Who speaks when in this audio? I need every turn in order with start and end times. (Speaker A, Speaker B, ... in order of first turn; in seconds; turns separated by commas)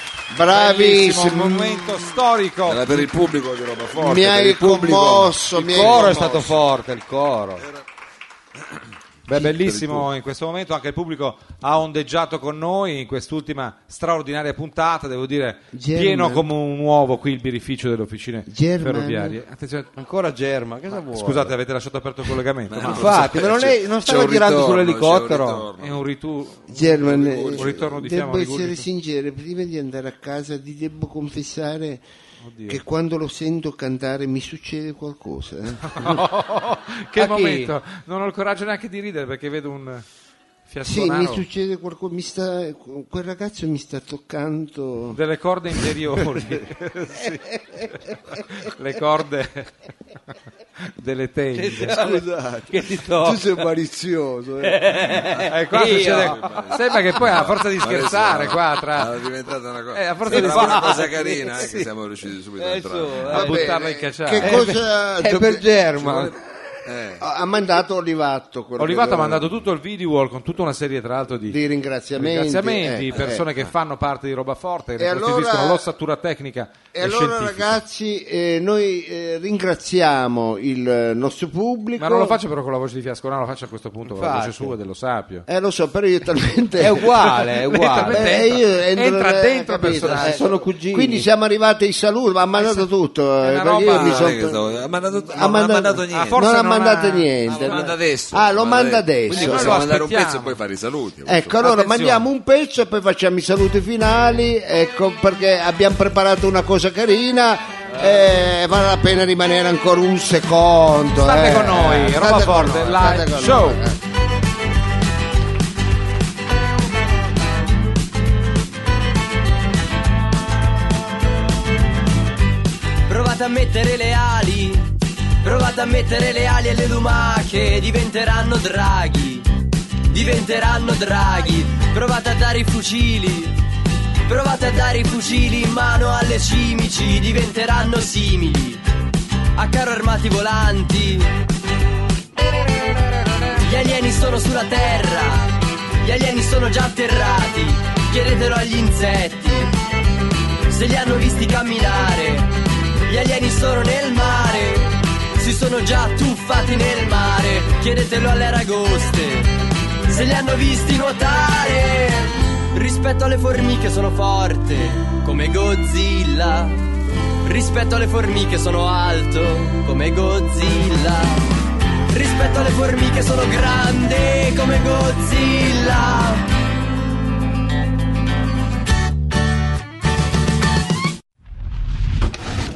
Speaker A: 0.3-2.2, Speaker B: 0.5-3.1, Speaker C: 2.7-5.4, Speaker A: 3.9-6.5, Speaker B: 5.7-6.2, Speaker D: 5.7-7.6, Speaker B: 9.3-19.9, Speaker C: 9.3-10.1, Speaker A: 15.7-16.4, Speaker A: 18.5-19.4, Speaker D: 19.9-21.5, Speaker B: 21.1-23.3, Speaker C: 22.7-26.0, Speaker D: 22.8-25.6, Speaker B: 25.8-28.8, Speaker A: 26.7-32.0, Speaker C: 27.0-27.8, Speaker B: 32.4-32.8, Speaker A: 32.7-36.2, Speaker B: 35.9-40.0, Speaker D: 37.1-37.7, Speaker B: 40.7-41.4, Speaker A: 40.8-45.2, Speaker B: 45.1-47.4, Speaker A: 46.2-46.6, Speaker D: 47.5-47.9, Speaker B: 48.3-49.7, Speaker B: 51.0-52.0, Speaker D: 51.5-53.6, Speaker A: 51.8-55.0, Speaker D: 54.6-56.8, Speaker B: 55.4-59.2, Speaker C: 55.8-63.2, Speaker B: 59.9-61.0, Speaker D: 60.3-61.9, Speaker D: 62.6-63.7, Speaker A: 63.3-65.6, Speaker B: 63.3-64.6, Speaker D: 64.4-66.3, Speaker C: 66.0-67.2, Speaker A: 67.2-69.5, Speaker B: 68.8-71.6, Speaker A: 71.5-73.4, Speaker B: 72.2-77.8, Speaker C: 73.1-73.7, Speaker A: 75.0-75.8, Speaker A: 76.9-82.4, Speaker B: 82.0-85.4, Speaker D: 84.0-84.7, Speaker A: 85.5-87.3, Speaker D: 86.8-88.3, Speaker B: 87.4-90.4, Speaker A: 88.0-94.6, Speaker D: 90.0-91.3, Speaker B: 92.5-92.9, Speaker B: 93.4-94.4, Speaker C: 93.8-96.4, Speaker A: 95.3-99.8, Speaker B: 96.1-97.3, Speaker C: 97.5-101.5, Speaker D: 97.5-97.9, Speaker B: 99.3-100.6, Speaker A: 101.2-114.0, Speaker B: 101.6-102.2, Speaker B: 111.2-113.8, Speaker E: 123.1-124.9, Speaker E: 125.4-129.5, Speaker E: 130.1-133.6, Speaker E: 134.3-138.8, Speaker E: 139.6-141.3, Speaker E: 143.6-149.7, Speaker E: 150.7-152.5, Speaker E: 153.0-159.5, Speaker E: 160.1-166.8, Speaker E: 167.4-171.5, Speaker E: 172.1-176.4